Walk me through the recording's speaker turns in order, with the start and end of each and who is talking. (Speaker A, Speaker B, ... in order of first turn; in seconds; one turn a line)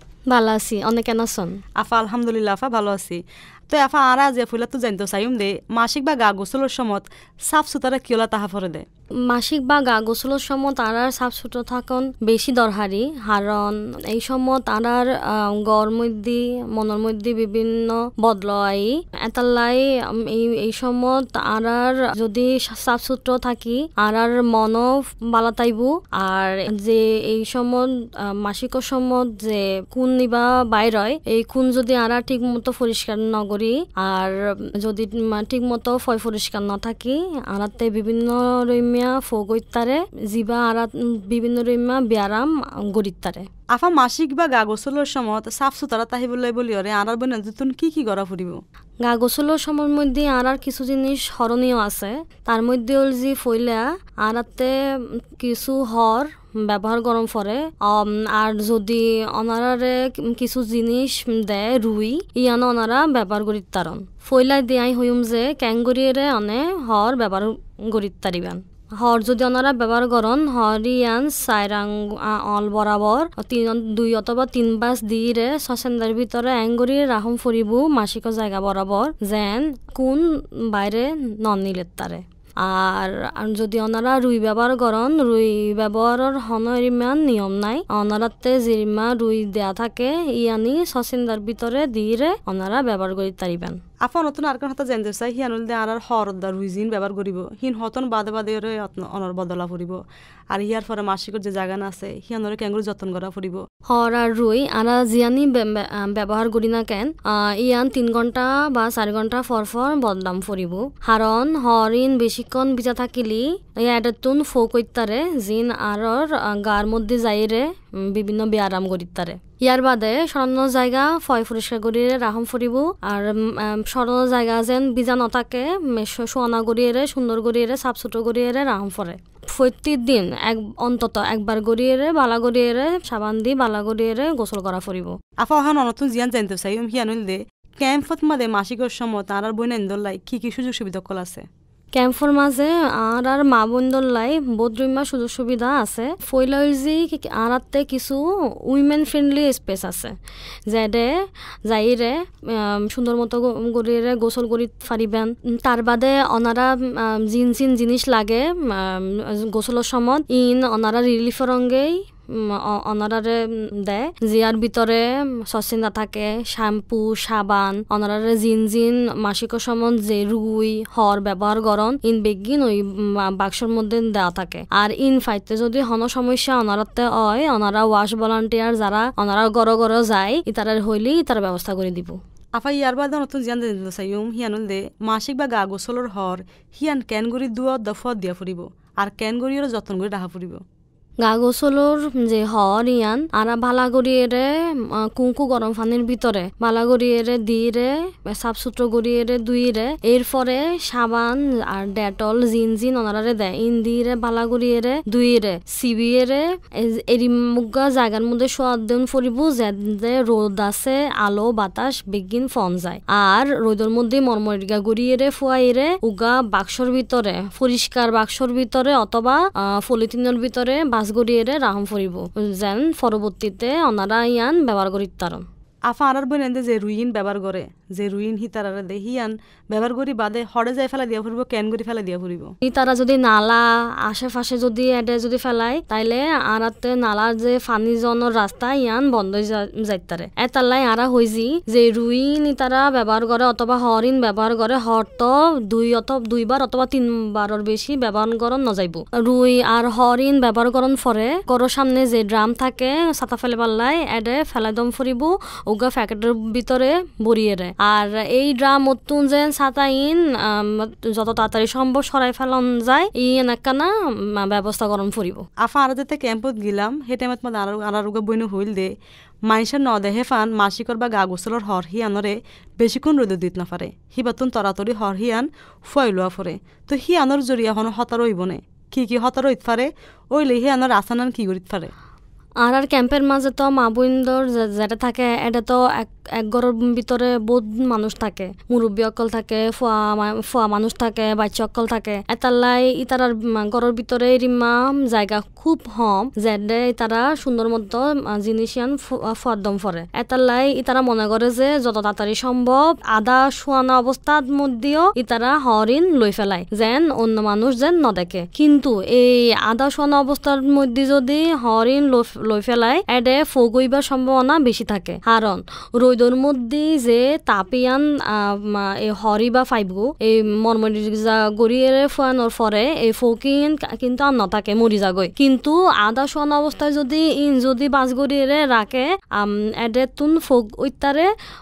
Speaker A: 0.3-1.6
Speaker B: 1.8-8.8
Speaker A: 9.3-43.5
Speaker B: 43.7-48.6
Speaker A: 49.0-54.7
Speaker A: 55.4-93.8
Speaker B: 94.0-100.0
Speaker B: 100.5-103.6
Speaker A: 103.9-135.1
Speaker B: 135.4-141.4
Speaker A: 141.9-150.1
Speaker A: 150.7-151.1
Speaker A: 151.7-182.2
Speaker B: 182.6-190.6
Speaker A: 191.2-194.5
Speaker A: 195.0-225.4
Speaker B: 225.9-232.5
Speaker A: 232.6-265.4
Speaker B: 265.6-268.9
Speaker B: 269.5-281.9
Speaker A: 282.6-331.3